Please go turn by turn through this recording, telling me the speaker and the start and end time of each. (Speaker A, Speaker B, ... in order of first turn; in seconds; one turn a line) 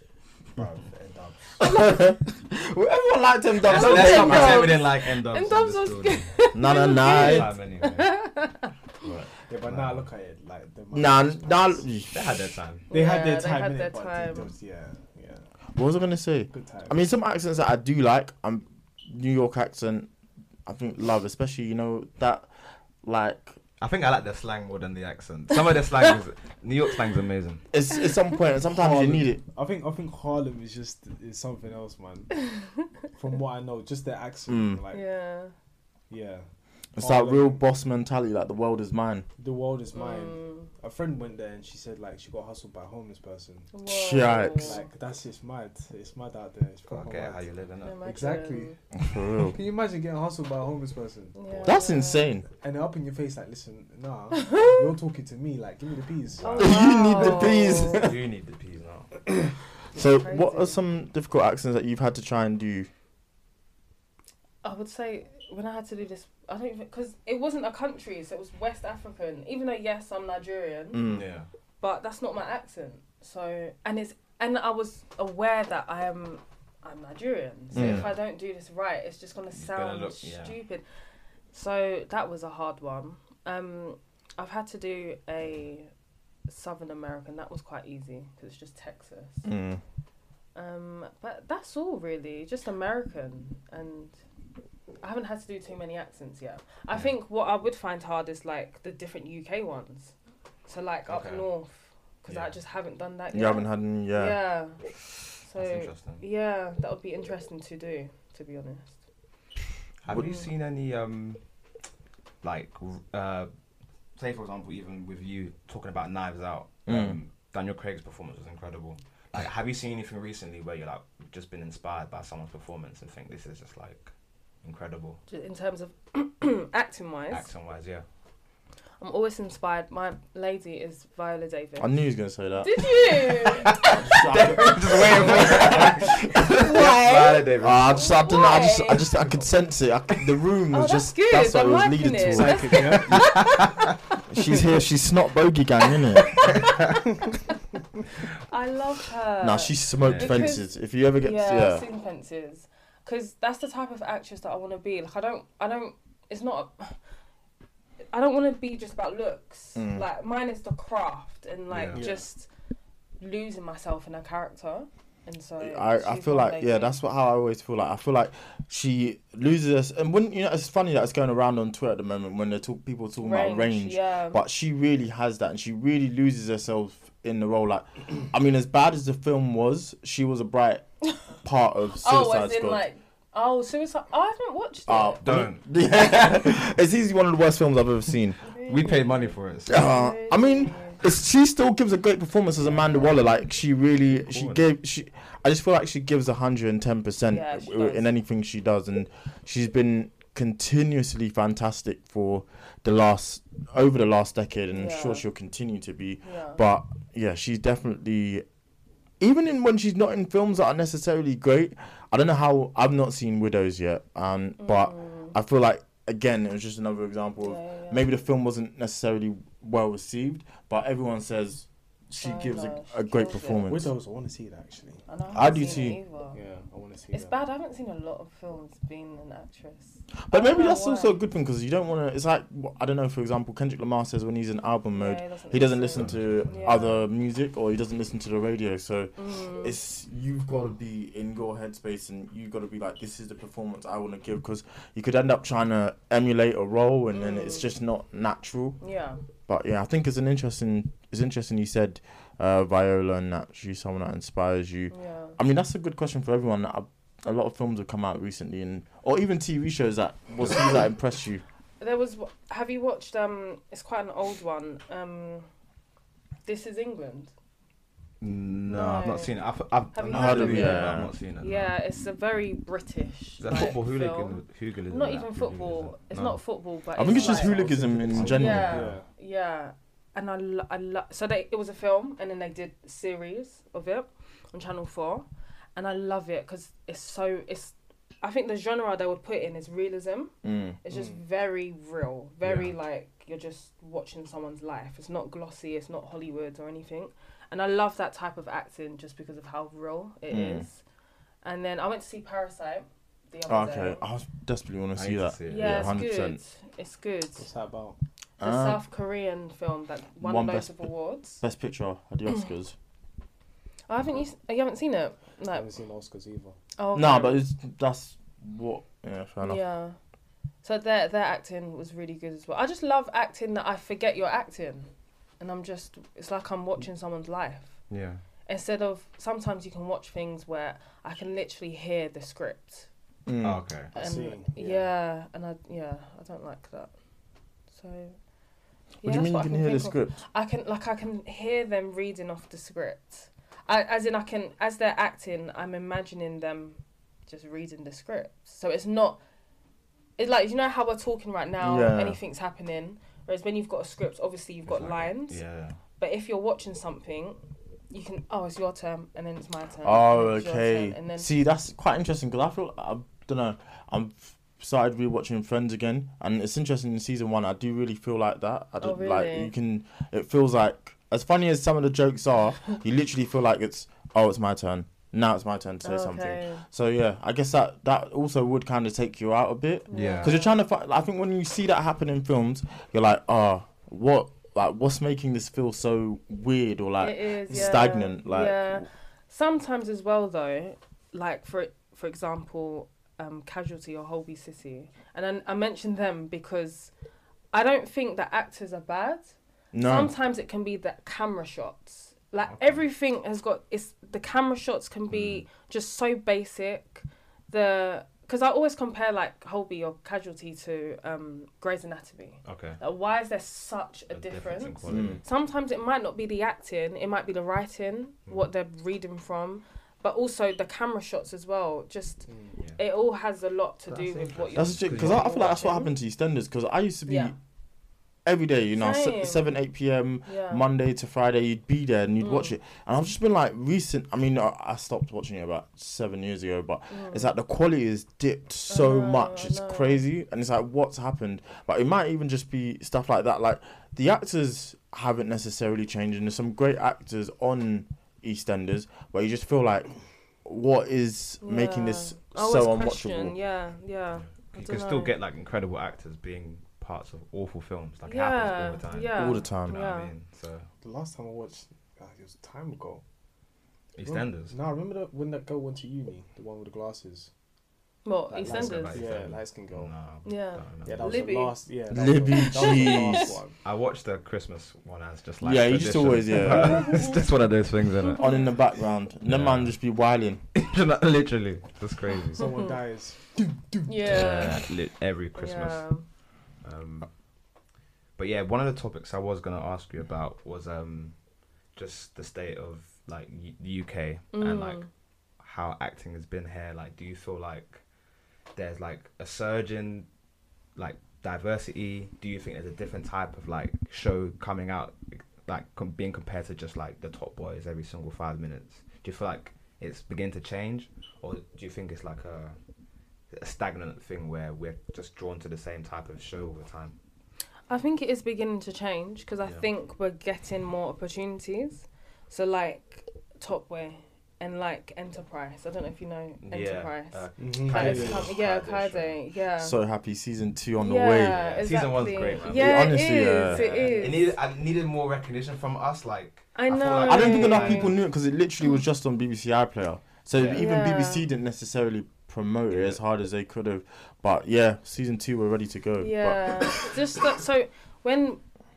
Speaker A: 0.6-1.8
Speaker B: 1.6-4.8
Speaker C: 3.6-6.3
Speaker D: 3.7-8.7
Speaker B: 6.5-7.5
Speaker C: 7.0-8.1
Speaker C: 9.0-10.1
Speaker A: 9.5-11.8
Speaker B: 10.9-12.1
Speaker C: 12.1-12.9
Speaker D: 12.9-14.5
Speaker A: 12.9-15.5
Speaker B: 15.7-20.1
Speaker A: 16.5-17.1
Speaker B: 20.7-22.5
Speaker B: 23.0-23.6
Speaker C: 23.8-27.6
Speaker B: 27.7-29.4
Speaker A: 28.6-32.4
Speaker A: 33.1-35.0
Speaker B: 34.5-34.8
Speaker D: 34.9-35.5
Speaker A: 36.1-36.5
Speaker B: 37.0-39.3
Speaker A: 37.0-37.6
Speaker A: 39.4-43.7
Speaker D: 39.9-40.7
Speaker D: 43.7-44.9
Speaker B: 43.9-44.8
Speaker A: 44.5-47.5
Speaker C: 46.9-48.0
Speaker D: 47.8-48.8
Speaker A: 48.0-48.8
Speaker B: 49.0-49.6
Speaker A: 49.4-51.7
Speaker D: 51.4-52.3
Speaker B: 51.6-52.5
Speaker A: 52.6-56.8
Speaker D: 54.4-54.8
Speaker C: 56.4-56.7
Speaker D: 56.4-58.0
Speaker B: 56.6-58.2
Speaker C: 57.8-59.1
Speaker B: 59.9-62.9
Speaker D: 60.0-60.8
Speaker D: 64.6-71.0
Speaker B: 70.9-71.3
Speaker C: 71.1-71.5
Speaker D: 71.8-80.8
Speaker B: 77.7-78.1
Speaker C: 77.7-78.2
Speaker C: 79.5-80.6
Speaker D: 81.5-85.9
Speaker D: 86.5-89.5
Speaker B: 89.4-89.8
Speaker D: 90.5-94.2
Speaker D: 95.0-100.1
Speaker D: 100.7-104.8
Speaker C: 101.1-101.5
Speaker C: 102.3-102.5
Speaker B: 103.3-104.4
Speaker D: 105.4-109.0
Speaker C: 105.6-106.2
Speaker C: 110.0-111.4
Speaker D: 110.2-110.5
Speaker C: 112.4-113.5
Speaker C: 114.2-124.1
Speaker B: 116.9-117.2
Speaker C: 124.6-125.2
Speaker D: 125.3-127.5
Speaker C: 127.3-128.0
Speaker D: 129.0-131.9
Speaker B: 131.8-132.9
Speaker D: 132.6-134.1
Speaker C: 133.5-137.9
Speaker B: 133.8-136.9
Speaker D: 136.5-137.4
Speaker B: 137.6-143.2
Speaker D: 137.9-139.1
Speaker D: 140.7-143.8
Speaker A: 142.2-143.3
Speaker B: 144.3-146.7
Speaker D: 146.3-147.0
Speaker D: 148.5-150.7
Speaker B: 149.4-151.8
Speaker C: 150.0-150.4
Speaker D: 151.2-157.0
Speaker D: 158.1-162.5
Speaker B: 159.8-160.1
Speaker C: 161.7-162.0
Speaker A: 161.9-162.2
Speaker D: 163.2-167.0
Speaker B: 165.6-180.8
Speaker D: 173.2-174.4
Speaker B: 181.4-182.9
Speaker D: 182.0-185.2
Speaker B: 184.9-188.4
Speaker C: 185.2-185.6
Speaker D: 188.4-191.0
Speaker C: 188.7-189.8
Speaker B: 189.7-208.5
Speaker C: 194.1-194.6
Speaker D: 197.3-198.1
Speaker D: 204.7-205.3
Speaker D: 206.2-206.6
Speaker B: 209.2-223.9
Speaker D: 214.6-215.4
Speaker D: 217.4-218.1
Speaker D: 222.2-223.7
Speaker A: 223.7-227.4
Speaker D: 225.1-226.4
Speaker B: 225.3-226.0
Speaker D: 227.1-231.2
Speaker B: 230.3-248.8
Speaker D: 234.9-237.1
Speaker C: 236.0-236.5
Speaker D: 239.2-239.8
Speaker D: 247.1-247.7
Speaker D: 248.8-249.2
Speaker B: 249.5-261.4
Speaker D: 254.9-255.4
Speaker D: 261.8-265.5
Speaker D: 266.4-267.3
Speaker C: 268.2-271.8
Speaker D: 268.7-269.3
Speaker D: 269.9-277.6
Speaker B: 270.1-271.1
Speaker C: 273.4-276.4
Speaker B: 276.9-278.8
Speaker A: 277.1-279.1
Speaker C: 278.1-279.0
Speaker D: 278.2-300.8
Speaker B: 290.4-290.8
Speaker A: 290.9-291.2
Speaker C: 292.4-292.7
Speaker B: 300.3-300.7
Speaker D: 301.4-304.0
Speaker B: 303.5-306.4
Speaker C: 304.9-306.1
Speaker D: 305.5-307.5
Speaker A: 307.4-308.0
Speaker B: 308.4-308.8
Speaker D: 308.4-311.4
Speaker B: 310.2-312.8
Speaker D: 313.9-315.7
Speaker A: 315.5-316.6
Speaker D: 316.8-317.4
Speaker B: 316.9-319.6
Speaker D: 319.4-320.0
Speaker D: 320.6-327.8
Speaker C: 327.9-328.2
Speaker D: 328.5-332.9
Speaker B: 333.3-333.7
Speaker C: 333.4-333.9
Speaker A: 333.9-334.9
Speaker D: 333.9-336.9
Speaker D: 337.7-338.2
Speaker D: 339.0-349.2
Speaker B: 339.0-340.2
Speaker D: 350.2-355.4
Speaker B: 351.6-352.2
Speaker C: 354.7-355.8
Speaker D: 356.0-357.4
Speaker D: 357.9-361.3
Speaker B: 359.8-388.9
Speaker D: 368.8-369.5
Speaker D: 375.8-376.6
Speaker D: 379.9-380.5
Speaker C: 379.9-380.3
Speaker D: 387.0-396.9
Speaker A: 387.5-388.0
Speaker D: 397.5-399.3
Speaker B: 399.7-400.1
Speaker D: 399.9-425.9
Speaker C: 402.5-402.8
Speaker C: 405.1-405.4
Speaker C: 412.4-412.8
Speaker C: 414.1-415.2
Speaker B: 414.9-415.2
Speaker A: 422.3-422.6
Speaker C: 423.9-425.6
Speaker B: 424.6-427.4
Speaker D: 427.1-427.3
Speaker B: 428.2-449.9
Speaker D: 428.8-429.5
Speaker D: 430.3-430.6
Speaker D: 432.2-432.6
Speaker D: 436.9-437.3
Speaker D: 438.7-440.0
Speaker B: 450.4-453.4
Speaker D: 451.4-455.1
Speaker C: 454.2-460.7
Speaker D: 458.1-460.1
Speaker B: 459.1-459.8
Speaker A: 460.8-463.0
Speaker C: 464.0-464.6
Speaker A: 464.0-467.3
Speaker D: 468.1-469.1
Speaker A: 468.3-469.9
Speaker C: 468.4-471.2
Speaker D: 470.2-471.6
Speaker A: 470.9-473.6
Speaker B: 471.9-473.4
Speaker D: 472.3-473.4
Speaker C: 473.6-478.3
Speaker B: 475.4-477.0
Speaker D: 476.7-477.2
Speaker D: 478.1-478.5
Speaker B: 478.2-480.4
Speaker C: 479.2-479.8
Speaker C: 480.6-482.5
Speaker A: 482.3-483.9
Speaker D: 482.4-482.7
Speaker D: 483.9-484.6
Speaker C: 484.1-485.9
Speaker D: 485.4-486.0
Speaker C: 486.6-487.1
Speaker C: 488.2-491.1
Speaker C: 491.8-494.9
Speaker D: 494.3-494.9
Speaker C: 495.4-497.8
Speaker C: 498.5-500.1
Speaker C: 500.8-512.6
Speaker C: 513.3-517.0
Speaker D: 517.7-529.8
Speaker C: 526.4-529.2
Speaker A: 527.4-528.3
Speaker B: 529.6-531.4
Speaker D: 530.8-534.3
Speaker C: 531.3-532.9
Speaker B: 532.5-533.7
Speaker C: 533.5-538.0
Speaker D: 536.5-537.9
Speaker B: 537.0-547.0
Speaker C: 540.3-540.6
Speaker D: 540.5-541.3
Speaker C: 542.7-543.0
Speaker D: 546.0-548.4